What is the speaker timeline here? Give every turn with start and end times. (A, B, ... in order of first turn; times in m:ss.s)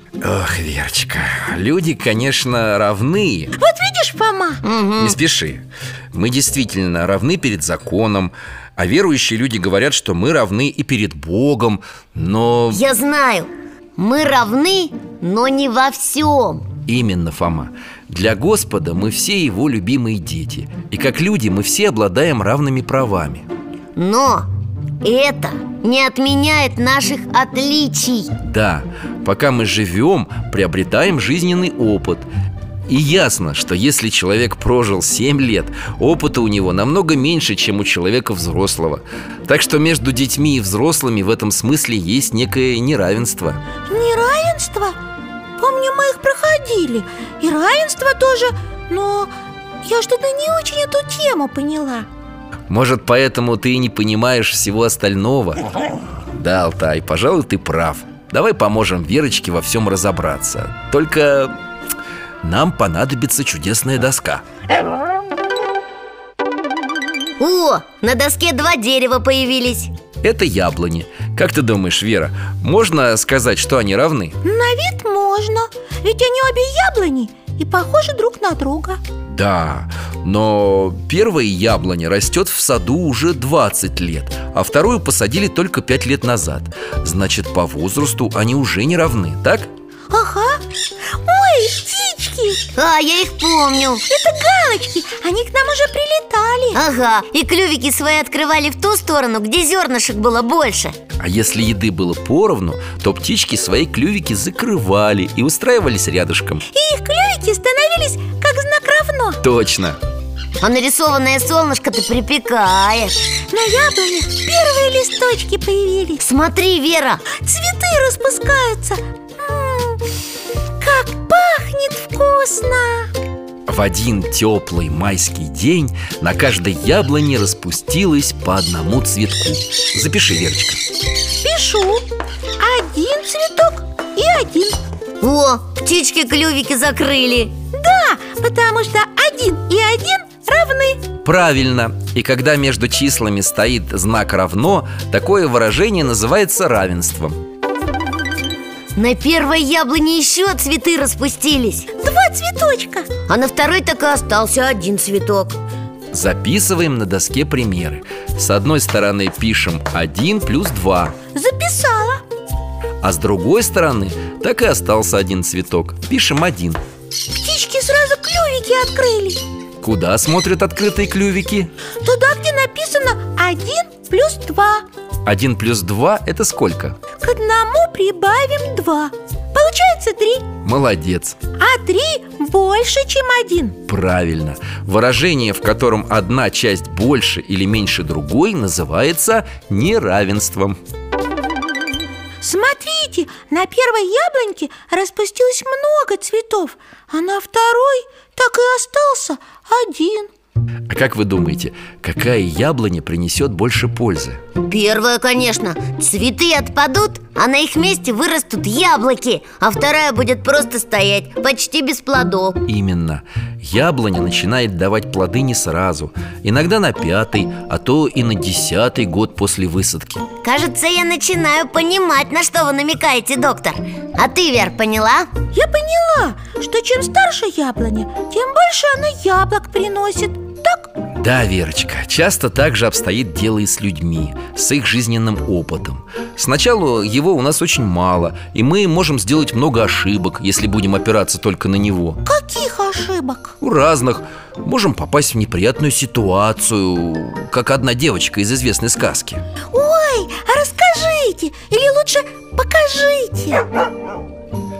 0:00.2-0:03.6 A
0:03.6-0:04.6 B
0:04.6-0:05.2 C
0:05.0-0:12.8 A
0:12.7-0:16.6 C
0:16.8-0:23.4 A
0:24.0-0:24.5 C
0:25.0-0:28.3 C
0:28.4-0:32.3 A
0:32.9-0:43.6 A
0:43.9-0:45.0 B
0:45.6-0:49.3 B
0:49.8-0:52.1 B
0:52.7-0:55.6 A
0:56.3-1:01.6 A
1:02.4-1:04.4 A
1:07.4-1:09.9 C
1:10.2-1:14.4 A
1:14.4-1:19.0 B
1:19.3-1:29.7 A
1:30.1-1:30.6 B
1:31.2-1:32.6 B
1:32.8-1:34.0 C
1:34.1-1:36.8 B
1:36.7-1:40.9 C
1:41.2-1:46.6 A
1:46.7-1:49.4 B
1:49.4-1:50.0 A
1:50.6-1:53.2 C
1:53.5-1:56.2 B
1:56.2-1:57.2 C
1:57.3-2:00.0 B
2:00.8-2:03.1 B
2:03.7-2:10.8 A
2:11.4-2:12.0 B
2:12.6-2:14.8 B
2:15.2-2:17.5 C
2:17.7-2:21.0 B
2:21.2-2:27.4 A
2:29.0-2:31.9 C
2:32.0-2:33.1 B
2:33.3-2:35.6 C
2:36.1-2:41.1 A
2:41.3-2:42.2 B
2:43.0-2:46.8 A
2:47.3-2:49.4 B
2:49.8-2:51.7 A
2:52.0-2:54.8 B
2:55.2-2:57.0 A
2:57.2-3:00.4 B
3:00.6-3:01.4 A
3:01.6-3:03.8 B
3:03.9-3:10.8 A
3:12.4-3:20.3 B
3:20.9-3:24.4 A
3:24.6-3:32.6 C
3:32.6-3:40.2 A
3:40.4-3:45.3 C
3:45.5-3:50.9 B
3:51.1-4:02.2 A
4:02.2-4:03.5 B
4:03.6-4:09.4 A
4:09.7-4:13.6 B